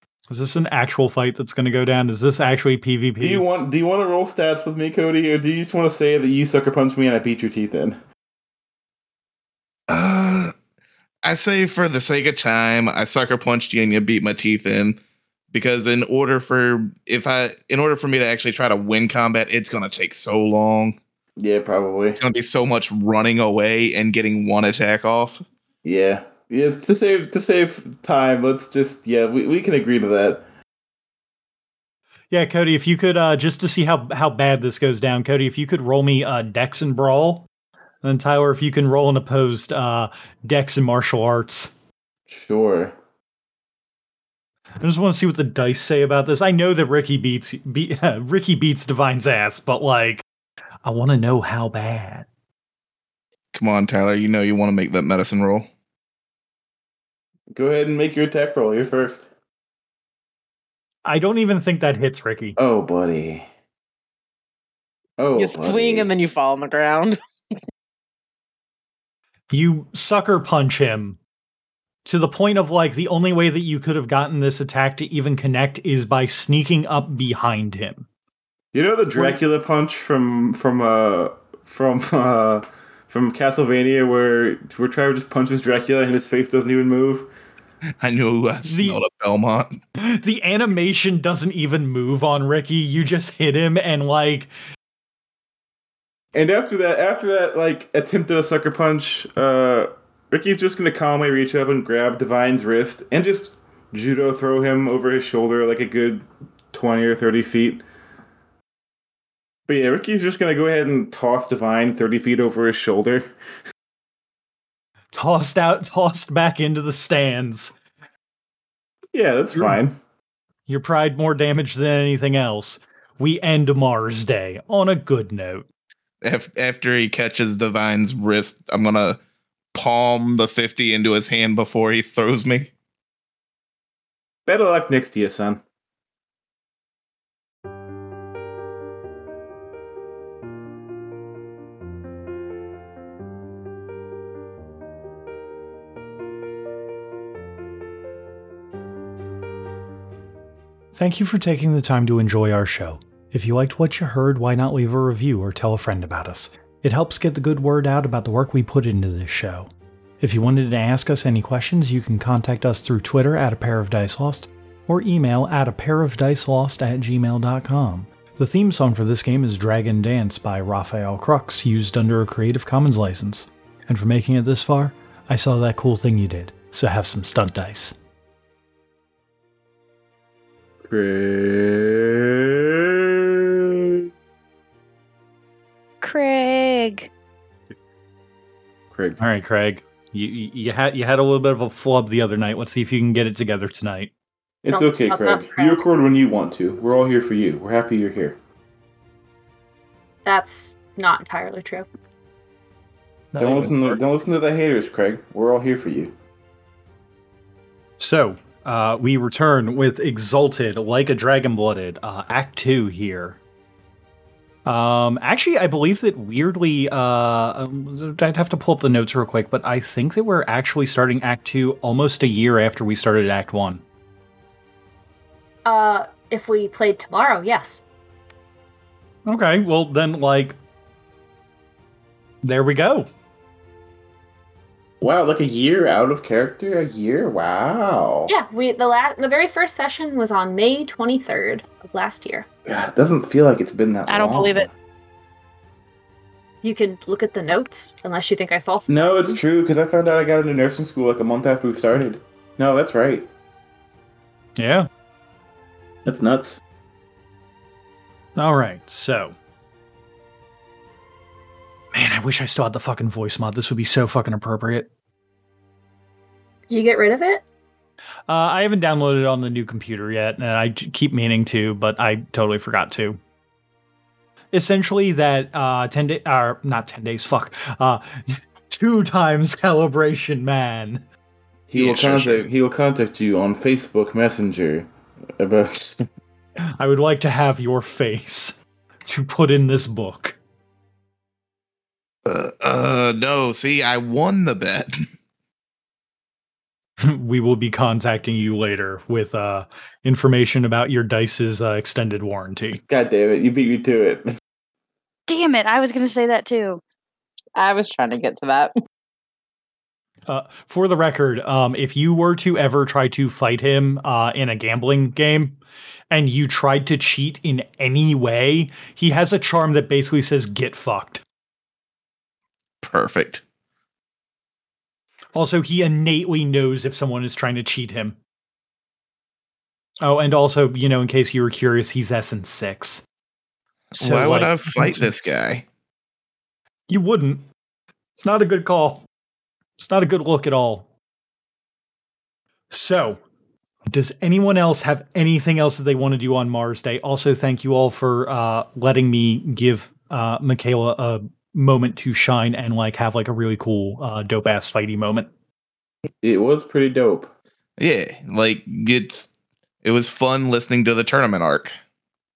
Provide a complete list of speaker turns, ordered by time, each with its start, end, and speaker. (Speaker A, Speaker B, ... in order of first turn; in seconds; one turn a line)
Speaker A: 0.3-3.4
Speaker B: 3.2-8.0
Speaker C: 9.9-10.5
Speaker C: 11.2-15.0
Speaker C: 15.5-21.0
Speaker B: 21.4-22.2
Speaker C: 22.2-25.5
Speaker B: 25.8-30.4
Speaker A: 32.3-37.5
Speaker A: 38.0-41.7
Speaker B: 42.3-42.9
Speaker A: 44.8-50.2
Speaker A: 50.8-52.3
Speaker C: 53.5-55.7
Speaker B: 57.5-59.3
Speaker A: 61.0-62.6
Speaker B: 62.6-63.5
Speaker B: 65.2-66.1
Speaker D: 65.3-67.2
Speaker A: 69.5-71.2
Speaker A: 72.0-78.1
Speaker B: 78.7-87.3
Speaker C: 88.0-89.8
Speaker A: 88.7-89.0
Speaker A: 90.0-94.5
Speaker B: 96.3-107.8
Speaker B: 109.7-113.3
Speaker A: 115.1-117.7
Speaker B: 119.1-120.0
Speaker A: 119.5-119.8
Speaker A: 120.7-125.7
Speaker C: 126.2-129.2
Speaker C: 129.7-132.7
Speaker B: 134.5-135.6
Speaker A: 150.9-178.0
Speaker B: 180.9-184.1
Speaker E: 186.0-187.1
Speaker B: 188.9-189.2
Speaker A: 189.2-194.1
Speaker B: 194.6-198.4
Speaker F: 194.7-195.8
Speaker F: 200.2-201.9
Speaker A: 203.3-204.0
Speaker B: 203.4-206.1
Speaker A: 208.0-213.4
Speaker A: 214.7-223.8
Speaker F: 225.7-227.8
Speaker A: 229.3-230.6
Speaker A: 232.4-233.1
Speaker B: 235.0-238.3
Speaker F: 238.3-242.5
Speaker B: 242.7-244.7
Speaker F: 244.1-244.7
Speaker F: 246.6-249.4
Speaker B: 248.9-253.3
Speaker A: 254.6-254.9
Speaker B: 256.1-256.6
Speaker A: 258.4-259.4
Speaker A: 261.9-264.9
Speaker F: 266.7-267.4
Speaker A: 268.3-273.2
Speaker A: 274.5-281.0
Speaker B: 281.7-286.1
Speaker C: 281.8-282.4
Speaker A: 286.8-290.4
Speaker C: 292.3-295.0
Speaker A: 297.0-302.8
Speaker B: 302.9-304.4
Speaker E: 305.3-306.8
Speaker D: 307.6-308.7
Speaker A: 310.3-315.6
Speaker A: 316.1-321.2
Speaker C: 322.8-323.4
Speaker A: 325.4-328.2
Speaker A: 330.0-333.0
Speaker C: 333.9-335.6
Speaker A: 334.0-335.1
Speaker A: 336.9-337.5
Speaker A: 338.1-339.1
Speaker A: 339.8-340.9
Speaker A: 342.7-343.2
Speaker A: 343.9-355.3
Speaker B: 356.2-357.3
Speaker C: 357.8-361.7